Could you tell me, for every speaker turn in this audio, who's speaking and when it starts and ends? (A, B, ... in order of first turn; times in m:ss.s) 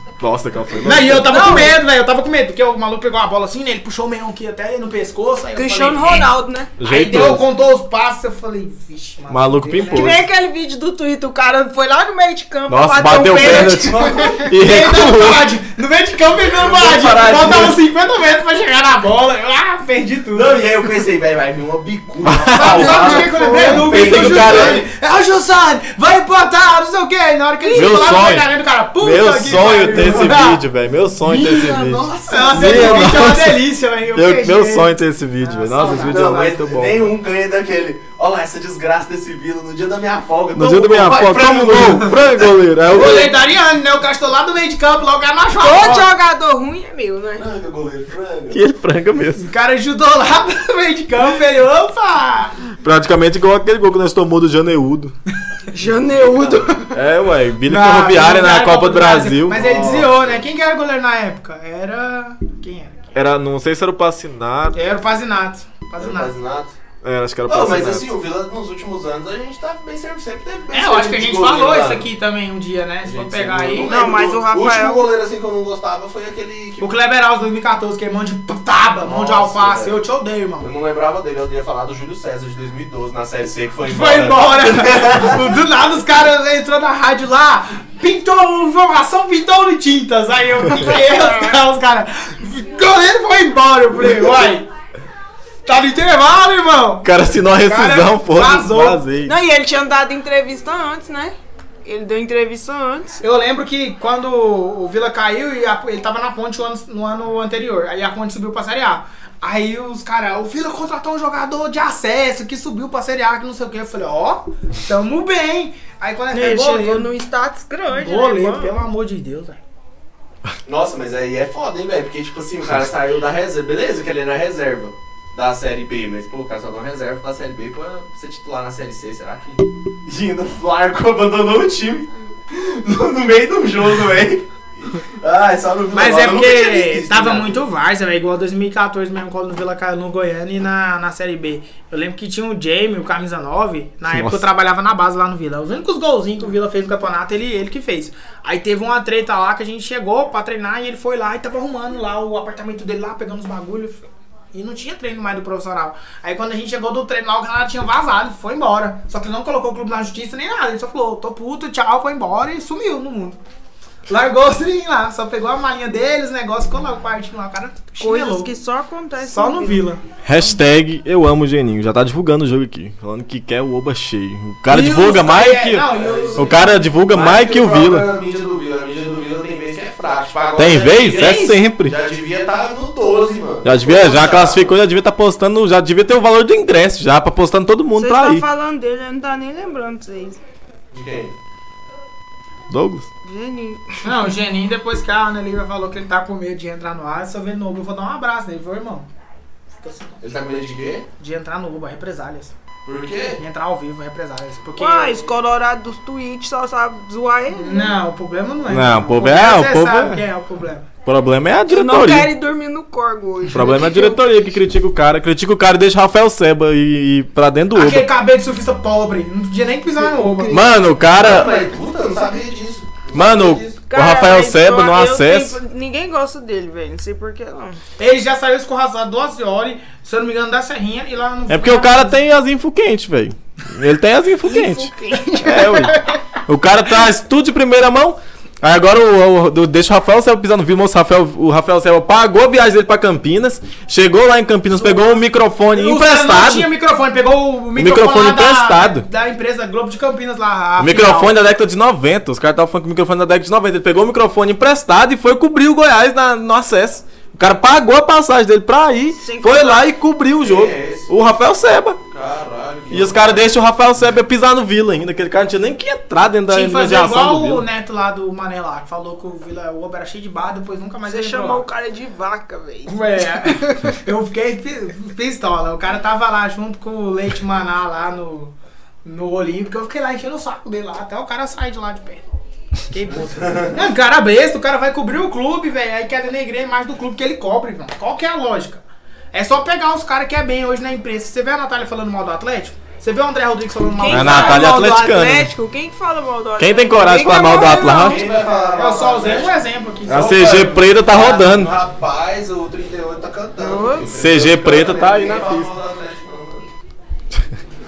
0:00.2-0:01.7 A
0:00.8-0:06.3 B
0:01.3-0:01.7 C
0:05.6-0:06.7 C
0:06.8-0:07.4 A
0:06.8-0:10.1 B
0:09.3-0:10.2 A
0:09.9-0:14.4 C
0:12.7-0:15.5 A
0:13.4-0:14.5 D
0:14.2-0:20.6 B
0:16.5-0:17.8 D
0:20.3-0:24.9 D
0:22.2-0:24.8 A
0:22.5-0:30.6 B
0:27.7-0:27.9 C
0:27.7-0:37.1 A
0:29.9-0:30.4 D
0:31.2-0:33.3 D
0:32.3-0:36.6 B
0:35.8-0:42.4 D
0:40.5-0:43.4 A
0:42.9-0:46.1 B
0:45.6-0:47.5 C
0:47.4-0:48.6 D
0:48.5-0:49.5 A
0:49.4-0:52.6 B
0:52.8-0:55.1 A
0:55.7-0:57.0 C
0:56.2-0:56.7 D
0:56.9-0:59.6 A
0:57.6-1:03.2 B
0:59.5-1:00.4 D
1:03.1-1:04.9 A
1:04.7-1:06.3 B
1:06.0-1:06.8 D
1:07.0-1:08.1 A
1:07.5-1:12.1 D
1:10.7-1:14.0 B
1:13.0-1:16.9 D
1:13.8-1:15.1 C
1:16.8-1:20.7 B
1:19.0-1:20.0 D
1:20.6-1:25.5 D
1:23.9-1:34.7 B
1:35.7-1:39.0 B
1:37.0-1:39.4 A
1:39.2-1:43.2 C
1:43.2-1:57.1 B
1:56.3-1:58.8 C
1:57.9-1:59.6 B
2:00.7-2:17.6 D
2:15.9-2:43.4 B
2:24.1-2:24.5 A
2:44.1-2:48.5 B
2:48.0-2:49.9 C
2:49.2-2:50.0 B
2:50.2-2:58.1 A
2:54.7-2:56.8 B
2:55.9-3:04.7 D
3:00.6-3:02.0 A
3:03.6-3:08.4 A
3:08.0-3:10.4 C
3:10.9-3:11.4 D
3:12.7-3:13.1 A
3:13.2-3:14.0 C
3:14.0-3:19.1 B
3:19.8-3:20.2 B
3:20.2-3:21.1 D
3:21.2-3:22.5 B
3:22.8-3:23.4 D
3:23.4-3:25.3 B
3:24.8-3:28.0 C
3:27.5-3:30.9 B
3:28.7-3:30.2 A
3:31.1-3:32.3 A
3:31.7-3:34.4 C
3:33.5-3:38.1 A
3:37.7-3:40.6 B
3:40.2-3:40.7 C
3:40.5-3:41.7 A
3:41.1-3:43.8 D
3:43.1-3:45.6 A
3:43.9-3:47.8 C
3:48.0-3:52.2 B
3:51.5-4:06.7 A
3:54.4-3:56.2 C
4:04.8-4:05.2 B
4:05.7-4:11.4 B
4:07.8-4:09.0 A
4:10.8-4:22.0 A
4:19.2-4:19.9 C
4:20.4-4:21.1 D
4:22.1-4:23.5 D
4:22.9-4:27.6 A
4:26.5-4:31.6 B
4:31.1-4:33.7 C
4:32.9-4:38.5 B
4:39.0-4:42.2 B
4:42.9-4:48.8 B
4:43.1-4:43.9 D
4:49.3-4:54.8 B
4:54.0-4:58.3 C
4:54.1-4:55.5 A
4:56.6-4:58.2 A
4:57.4-4:59.6 D
4:58.2-5:00.5 B
5:00.1-5:01.7 A
5:00.1-5:06.7 D
5:03.6-5:04.1 C
5:04.0-5:05.7 A